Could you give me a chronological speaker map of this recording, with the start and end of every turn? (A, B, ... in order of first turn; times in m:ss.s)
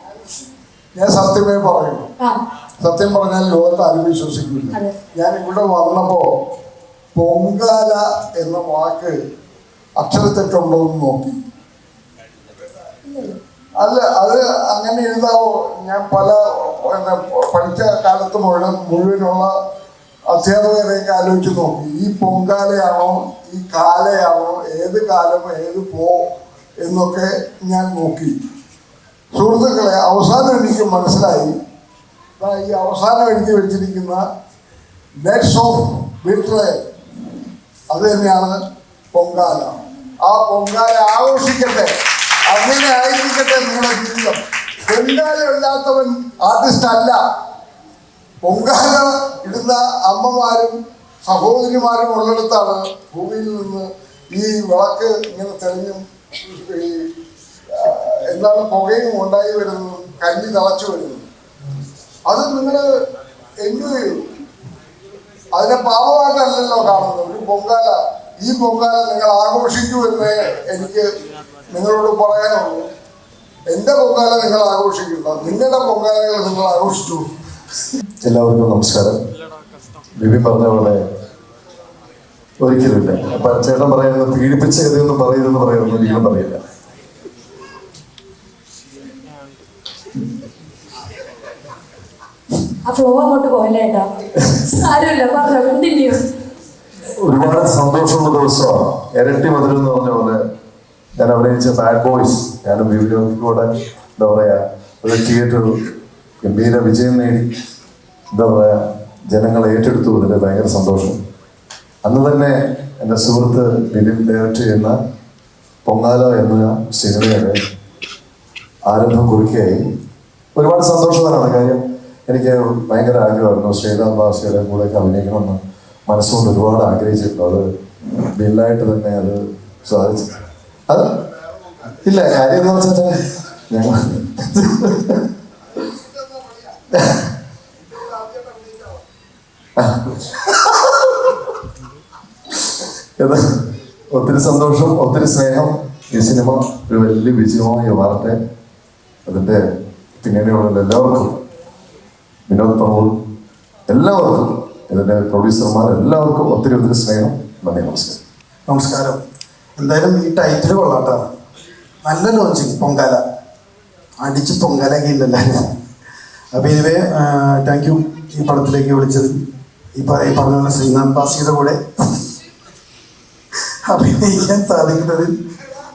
0:00.9-0:02.1 A
0:02.8-0:06.2 A
0:07.1-0:09.1 A
0:10.0-0:11.4 A
0:13.0-0:13.4 B
0:13.8-0:19.5 A
0:20.3-0:26.2 A
0:26.8-0:28.3 A
0:29.3-0:31.5 A
0:32.4-0:34.2 A
0:35.2-0:36.8 A
0:37.9-0:38.5 A
0:39.1-0:39.7 A
0:40.2-0:41.9 A
0:42.5-0:47.2 A
0:48.4-0:57.0 A
0:57.7-1:01.2 A
1:02.3-1:02.8 A
1:03.6-1:04.2 A
1:05.5-1:11.0 A
1:11.7-1:12.8 A
1:13.7-1:17.2 A
1:18.2-1:19.2 C
1:20.2-1:21.0 C
1:22.6-1:26.6 C
1:32.8-1:36.2 B
1:37.1-1:40.4 C
1:41.2-1:45.7 C
1:46.4-1:47.5 C
1:48.3-1:51.2 C
1:52.0-1:54.9 C
1:55.8-1:57.6 C
1:58.9-1:59.8 C
2:00.5-2:07.6 C
2:08.3-2:10.3 C
2:10.9-2:11.2 C
2:12.0-2:15.1 C
2:16.9-2:17.3 C
2:19.8-2:21.0 C
2:23.2-2:28.4 C
2:29.3-2:29.6 C
2:30.2-2:31.4 C
2:32.5-2:33.2 C
2:33.9-2:38.2 C
2:38.7-2:39.2 D
2:39.8-2:41.3 D
2:42.0-2:43.2 D
2:44.2-2:45.7 D
2:46.5-2:49.4 D
2:50.0-2:52.2 D
2:53.9-2:55.4 D